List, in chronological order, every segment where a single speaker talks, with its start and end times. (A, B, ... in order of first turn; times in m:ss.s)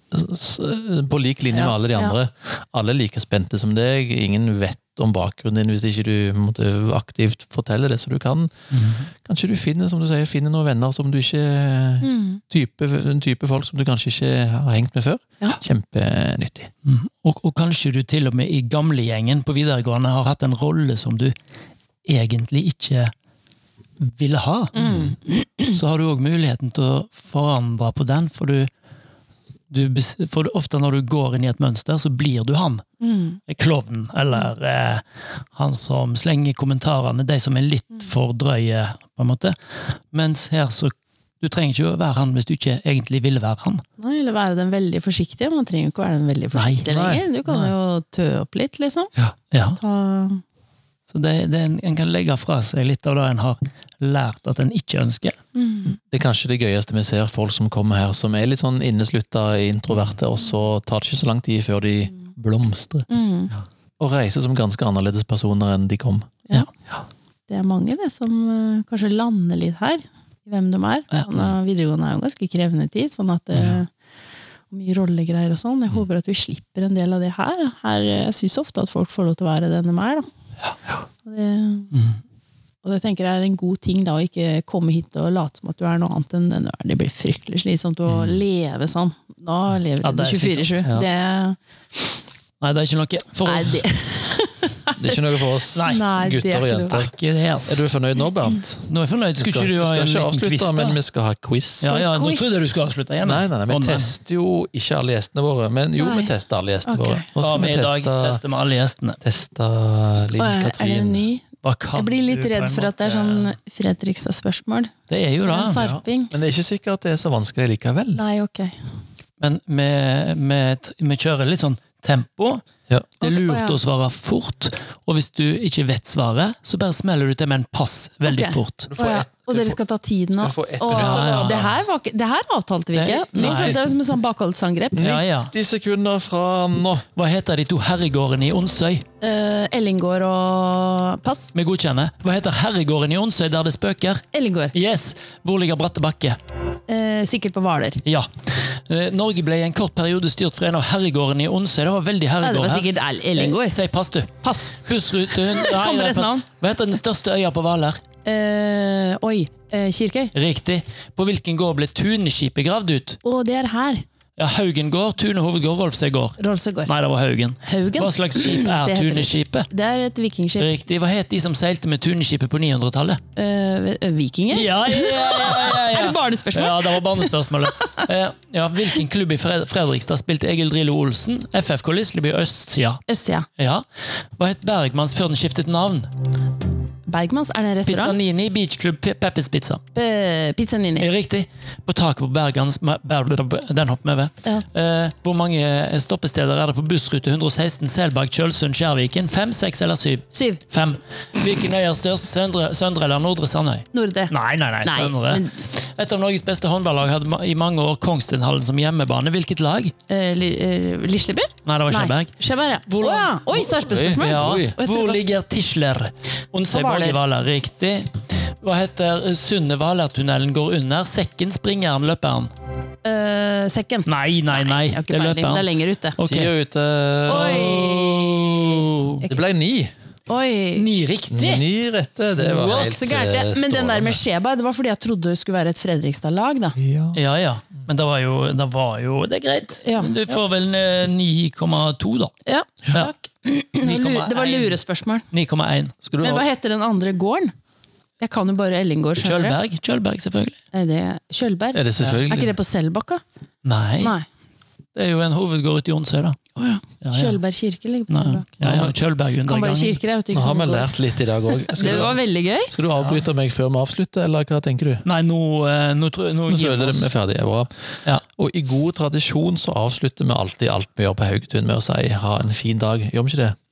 0:00.1-0:08.5 A
0:01.6-0:02.1 B
0:08.7-0:09.1 C
0:09.2-0:16.7 A
0:12.0-0:12.4 B
0:16.8-0:21.3 C
0:22.0-0:23.1 C
0:24.0-0:25.0 C
0:24.8-0:25.8 B
0:25.7-0:28.7 C
0:29.7-0:32.8 C
0:33.0-0:33.4 B
0:33.5-0:35.0 C
0:35.5-0:39.6 C
0:40.1-0:43.8 C
0:44.0-0:49.1 B
0:46.5-0:47.0 C
0:46.9-0:47.7 A
0:49.5-0:49.8 C
0:49.8-0:50.4 B
0:51.1-0:55.4 C
0:55.6-0:56.0 B
0:56.1-1:03.1 A
1:03.1-1:03.5 B
1:04.0-1:06.3 A
1:07.5-1:13.9 B
1:14.7-1:20.3 B
1:21.2-1:22.0 B
1:22.8-1:32.1 B
1:28.1-1:28.4 A
1:30.0-1:30.8 C
1:32.6-1:33.8 C
1:33.4-1:37.1 B
1:35.0-1:37.1 A
1:35.8-1:36.1 C
1:36.9-1:37.8 C
1:37.7-1:42.0 A
1:38.9-1:41.0 C
1:41.8-1:44.1 C
1:41.8-1:42.6 B
1:43.2-1:48.4 A
1:46.0-1:46.3 B
1:46.9-1:47.3 B
1:47.4-1:49.2 C
1:49.2-1:51.2 A
1:50.4-1:54.9 B
1:51.6-1:53.6 C
1:55.1-1:55.8 C
1:55.4-1:56.3 B
1:55.8-1:58.2 A
1:58.2-1:58.8 B
1:59.4-2:02.6 C
2:03.2-2:03.8 B
2:03.2-2:08.9 C
2:08.2-2:15.1 B
2:08.9-2:09.8 A
2:10.4-2:11.8 A
2:10.9-2:11.7 C
2:12.9-2:13.8 C
2:13.4-2:13.8 A
2:15.0-2:17.1 A
2:15.0-2:15.5 C
2:17.2-2:19.1 C
2:19.2-2:21.5 B
2:21.6-2:26.4 C
2:24.3-2:24.7 B
2:26.9-2:28.0 B
2:28.0-2:38.0 C
2:32.4-2:33.8 B
2:34.4-2:36.5 B
2:38.2-2:40.3 B
2:40.3-2:43.2 C
2:43.2-2:44.0 B
2:44.4-2:49.7 C
2:46.4-2:46.9 B
2:47.6-2:50.7 B
2:50.6-2:53.2 C
2:53.4-2:58.1 B
2:54.5-3:03.0 C
3:03.1-3:03.5 B
3:03.6-3:03.8 C
3:04.4-3:06.1 C
3:07.1-3:08.2 B
3:07.9-3:09.8 C
3:09.9-3:11.1 B
3:11.0-3:29.9 C
3:20.3-3:20.6 B
3:23.9-3:25.6 B
3:30.1-3:35.3 B
3:31.6-3:32.4 C
3:32.9-3:42.5 C
3:33.8-3:34.7 A
3:36.7-3:37.2 B
3:43.0-3:46.2 B
3:44.1-3:45.7 C
3:46.2-3:46.5 C
3:46.2-3:48.7 A
3:47.3-3:48.7 B
3:47.4-3:49.2 C
3:49.2-3:49.9 A
3:50.3-3:50.9 B
3:50.8-3:51.6 C
3:51.3-3:54.2 A
3:52.4-3:56.8 B
3:56.8-3:57.2 A
3:57.1-4:02.3 C
3:59.8-4:00.3 B
4:02.5-4:05.3 B
4:03.8-4:04.8 C
4:05.3-4:06.0 C
4:06.0-4:06.4 A
4:06.2-4:07.5 B
4:08.2-4:09.6 B
4:09.2-4:10.6 C
4:10.7-4:13.2 B
4:11.7-4:12.6 A
4:13.6-4:14.2 C
4:14.0-4:14.3 B
4:15.0-4:16.4 C
4:16.6-4:18.9 B
4:17.0-4:17.4 C
4:18.1-4:20.0 C
4:18.6-4:18.9 A
4:19.4-4:20.9 B
4:20.3-4:25.0 A
4:21.5-4:22.7 B
4:25.0-4:27.1 C
4:26.5-4:33.6 A